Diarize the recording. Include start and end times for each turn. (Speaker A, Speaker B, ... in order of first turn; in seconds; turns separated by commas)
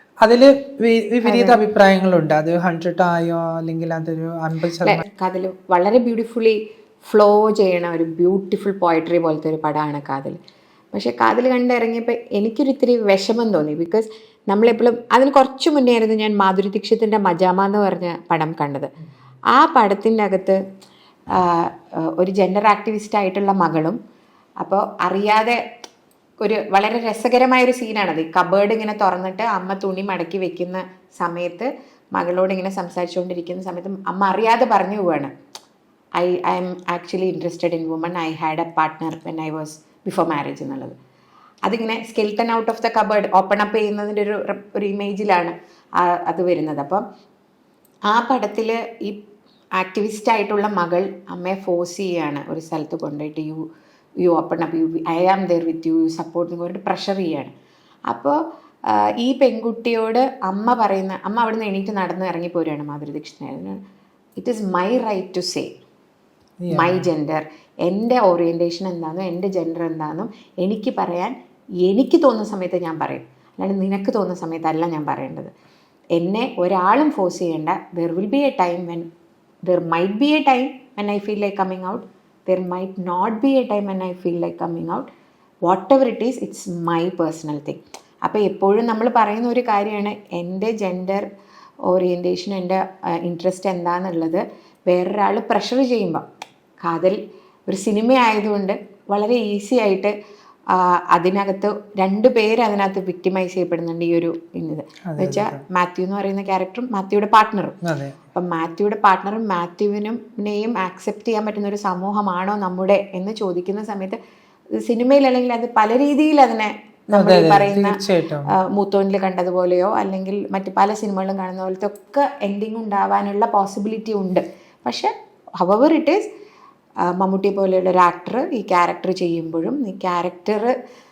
Speaker A: 0.2-5.0, Speaker B: 1.2-1.6, Speaker B: 4.8-10.4, Speaker B: 10.9-18.9, Speaker B: 19.5-20.6, Speaker B: 21.3-24.0, Speaker B: 24.6-25.6, Speaker B: 26.4-35.3, Speaker B: 36.2-40.9, Speaker B: 41.6-47.0, Speaker B: 48.1-49.2, Speaker B: 49.8-53.6, Speaker B: 54.2-57.5, Speaker B: 58.1-63.8, Speaker B: 64.4-65.7, Speaker A: 66.6-67.1, Speaker B: 66.7-75.5, Speaker B: 76.2-79.1, Speaker B: 79.7-85.1, Speaker B: 85.7-91.2, Speaker B: 91.9-96.2, Speaker B: 96.8-100.1, Speaker B: 100.7-107.7, Speaker A: 105.1-105.6, Speaker A: 107.8-108.2, Speaker B: 108.3-114.2, Speaker B: 114.8-126.2, Speaker A: 117.1-118.5, Speaker B: 127.0-130.8